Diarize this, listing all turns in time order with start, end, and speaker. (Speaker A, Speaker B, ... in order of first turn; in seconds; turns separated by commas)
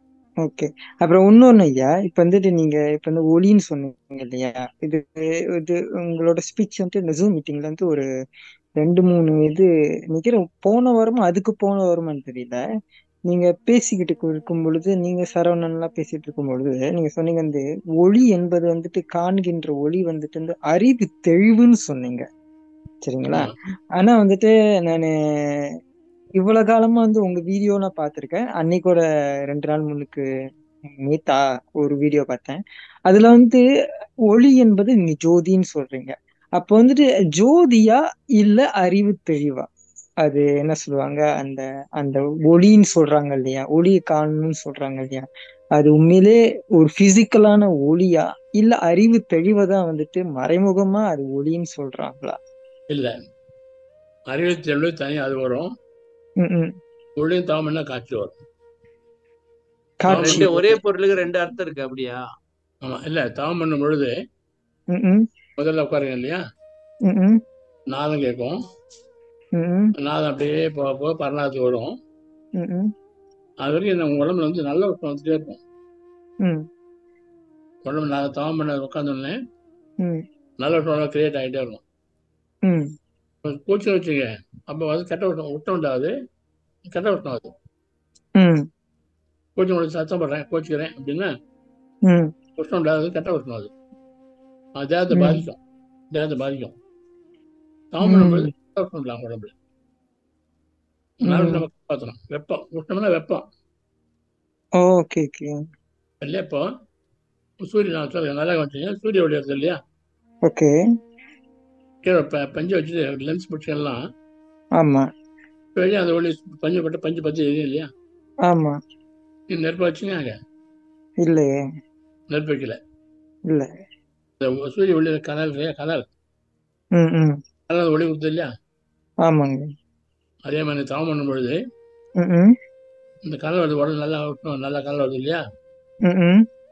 Speaker A: 0.4-8.0, Speaker A: 8.8-12.6, Speaker A: 13.3-22.2, Speaker A: 23.1-25.7, Speaker A: 26.4-30.2, Speaker A: 31.0-33.6, Speaker A: 34.3-39.7, Speaker A: 40.2-52.4, Speaker B: 54.3-55.7, Speaker A: 56.4-56.7, Speaker B: 57.2-58.4, Speaker A: 60.0-60.8, Speaker B: 60.1-60.5, Speaker C: 60.1-62.2, Speaker B: 62.8-64.1, Speaker A: 64.9-65.2, Speaker B: 65.6-66.4, Speaker A: 67.1-67.4, Speaker B: 67.9-68.5, Speaker A: 69.5-69.9, Speaker B: 70.0-72.0, Speaker A: 72.6-72.9, Speaker B: 73.6-75.6, Speaker B: 77.8-79.3, Speaker B: 80.6-81.8, Speaker B: 83.4-86.1, Speaker B: 86.9-87.5, Speaker A: 88.4-88.7, Speaker B: 89.5-91.3, Speaker A: 92.1-92.3, Speaker B: 92.6-93.7, Speaker B: 94.8-95.6, Speaker A: 95.1-95.4, Speaker B: 96.1-96.7, Speaker B: 97.9-99.5, Speaker A: 98.0-98.5, Speaker B: 101.2-103.4, Speaker A: 101.3-101.6, Speaker A: 104.8-105.5, Speaker B: 106.2-106.7, Speaker B: 107.6-109.8, Speaker B: 112.0-114.0, Speaker A: 114.8-115.0, Speaker B: 115.7-117.9, Speaker A: 118.5-118.8, Speaker B: 119.5-120.3, Speaker A: 121.2-121.5, Speaker B: 122.3-122.8, Speaker B: 124.4-126.0, Speaker A: 127.0-127.4, Speaker B: 127.7-128.5, Speaker A: 129.2-129.7, Speaker B: 130.4-131.6, Speaker A: 132.2-132.5, Speaker B: 133.2-135.4, Speaker A: 136.1-136.4